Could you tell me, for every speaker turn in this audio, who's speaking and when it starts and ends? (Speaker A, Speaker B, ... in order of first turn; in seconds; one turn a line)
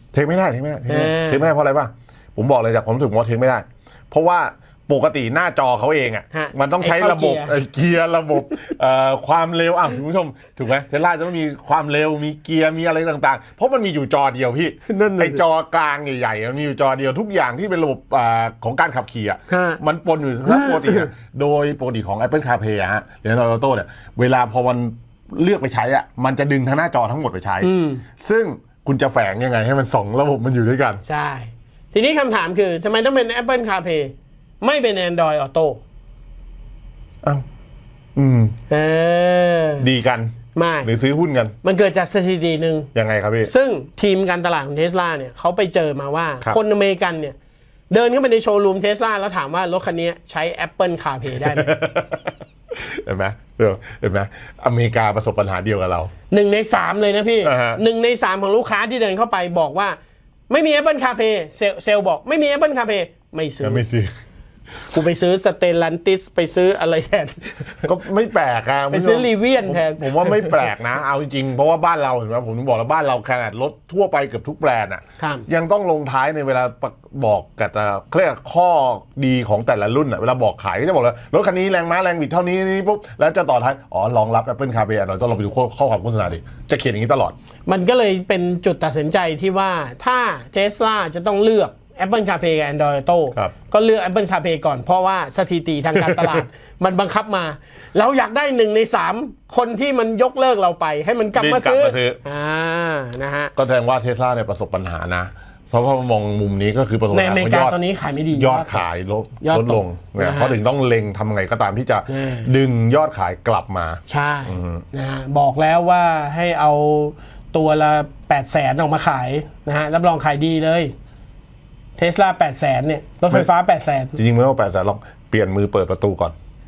Speaker A: 0.1-31.0
Speaker B: 0.9-1.5
Speaker B: 6.3-7.6
Speaker B: 14.9-15.4
Speaker B: 19.5-19.8
Speaker B: 20.5-21.1
Speaker B: 27.6-28.0
Speaker B: 31.1-35.8
Speaker A: 38.1-38.5
Speaker B: 38.7-39.9
Speaker A: 39.8-41.5
Speaker B: 40.5-40.9
Speaker B: 41.6-42.9
Speaker A: 42.9-43.5
Speaker B: 43.4-47.4
Speaker B: 47.9-51.8
Speaker A: 51.4-56.1
Speaker B: 56.3-60.0
Speaker A: 57.4-57.8
Speaker B: 60.5-63.8
Speaker A: 63.6-64.1
Speaker B: 64.9-67.9
Speaker A: 67.8-87.3
Speaker B: 68.9-70.6
Speaker B: 75.2-75.5
Speaker B: 87.7-103.5
Speaker A: 96.0-96.4
Speaker A: 101.3-102.2
Speaker A: 103.5-107.8
Speaker B: 107.1-108.8
Speaker A: 108.3-114.8
Speaker B: 109.4-110.5
Speaker B: 112.1-112.5
Speaker B: 114.1-120.9
Speaker B: 122.0-124.2
Speaker A: 124.2-126.3